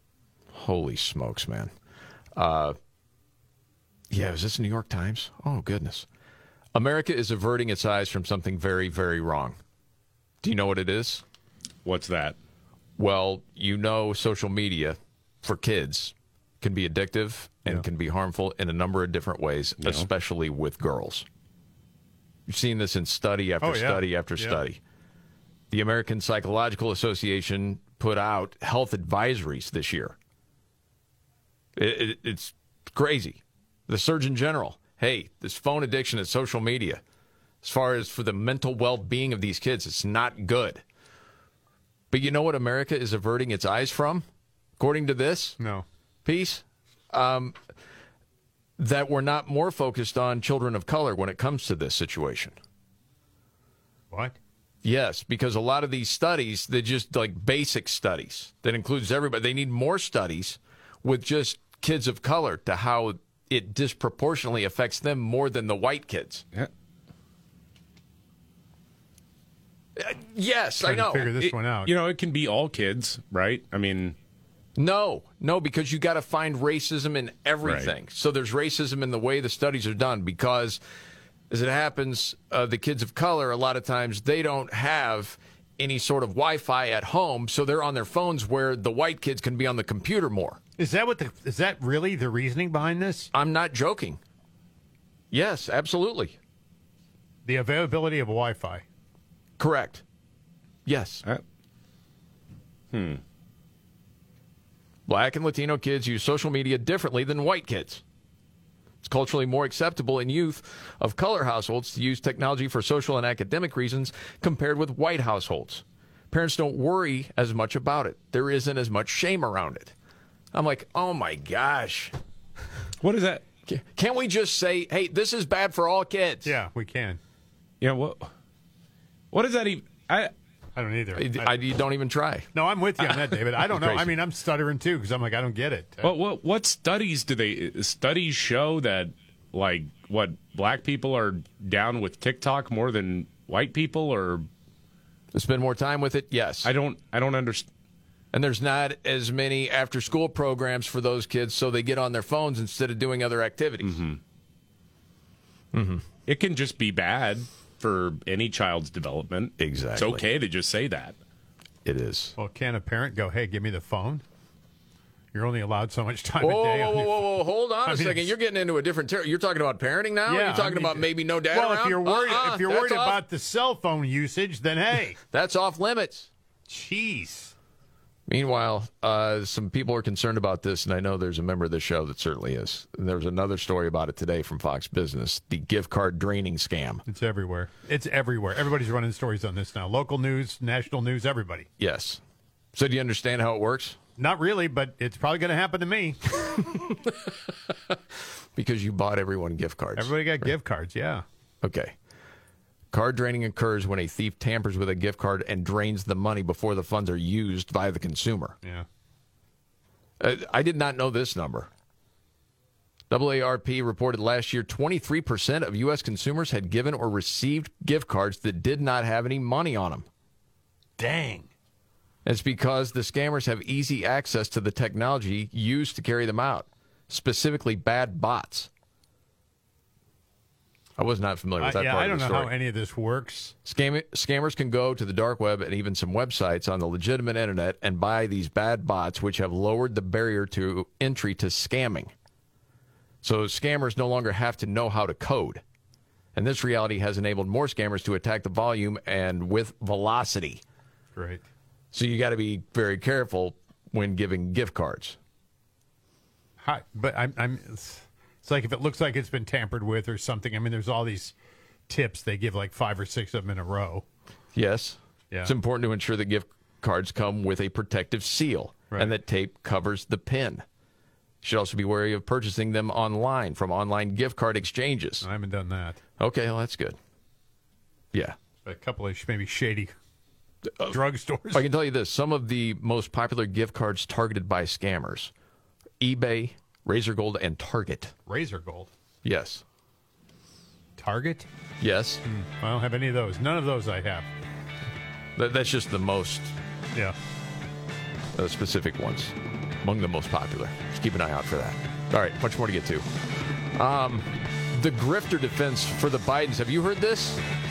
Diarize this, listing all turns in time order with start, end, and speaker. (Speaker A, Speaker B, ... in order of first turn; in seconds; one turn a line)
Speaker A: 0.5-1.7
Speaker A: 2.4-2.8
Speaker A: 4.1-6.1
Speaker A: 6.7-9.6
Speaker A: 10.4-11.2
Speaker B: 11.8-12.4
Speaker A: 13.0-21.3
Speaker B: 19.8-20.1
Speaker A: 22.5-24.8
Speaker C: 23.6-24.6
Speaker A: 25.7-30.2
Speaker A: 31.8-37.0
Speaker A: 37.6-40.8
Speaker A: 42.1-44.3
Speaker A: 44.8-45.6
Speaker C: 45.6-45.9
Speaker A: 46.2-47.6
Speaker A: 48.8-52.6
Speaker C: 54.1-54.4
Speaker A: 54.8-66.5
Speaker A: 70.0-71.3
Speaker C: 70.8-71.9
Speaker B: 71.5-74.2
Speaker A: 74.8-80.8
Speaker B: 77.6-77.9
Speaker A: 81.5-90.6
Speaker C: 90.8-93.3
Speaker A: 93.3-94.2
Speaker A: 95.3-96.4
Speaker C: 97.5-98.8
Speaker A: 99.6-100.0
Speaker A: 100.9-101.2
Speaker B: 102.9-103.2
Speaker A: 105.1-108.0
Speaker A: 109.0-119.9
Speaker A: 120.5-122.1
Speaker B: 123.0-123.4
Speaker A: 123.7-126.5
Speaker C: 126.5-127.2
Speaker B: 127.8-128.3
Speaker B: 129.3-130.3
Speaker C: 130.8-131.5
Speaker A: 131.2-132.5
Speaker C: 132.5-136.1
Speaker A: 133.7-134.1
Speaker B: 136.0-144.5
Speaker A: 145.3-146.7
Speaker B: 146.6-147.7
Speaker A: 148.3-154.0
Speaker B: 153.8-154.2
Speaker A: 155.7-156.1
Speaker B: 156.3-161.2
Speaker A: 159.6-160.2
Speaker A: 161.8-162.3
Speaker C: 162.4-164.2
Speaker C: 165.3-167.3
Speaker A: 166.4-173.2
Speaker C: 167.8-168.3
Speaker C: 170.3-175.2
Speaker A: 175.3-176.3
Speaker C: 176.7-177.5
Speaker A: 178.3-187.0
Speaker C: 187.1-191.7
Speaker A: 191.8-192.2
Speaker A: 192.7-194.0
Speaker C: 194.2-196.2
Speaker A: 198.6-200.5
Speaker C: 200.0-201.2
Speaker A: 201.6-201.9
Speaker A: 202.9-208.6
Speaker A: 210.2-211.7
Speaker A: 213.1-220.1
Speaker C: 221.0-221.5
Speaker A: 222.2-228.7
Speaker A: 231.0-232.5
Speaker C: 231.6-233.6
Speaker A: 233.7-242.1
Speaker A: 243.2-245.6
Speaker A: 246.3-250.6
Speaker C: 251.2-251.4
Speaker A: 251.9-255.2
Speaker C: 256.6-261.3
Speaker C: 261.9-264.1
Speaker A: 264.5-270.6
Speaker A: 271.4-275.3
Speaker C: 275.2-276.0
Speaker A: 276.2-277.0
Speaker C: 278.6-279.9
Speaker C: 280.9-281.6
Speaker A: 281.5-285.3
Speaker A: 286.0-288.1
Speaker C: 288.3-288.9
Speaker A: 289.2-289.6
Speaker C: 291.0-291.5
Speaker A: 291.8-292.2
Speaker C: 292.3-294.3
Speaker A: 295.4-296.5
Speaker A: 298.4-303.1
Speaker A: 303.8-307.4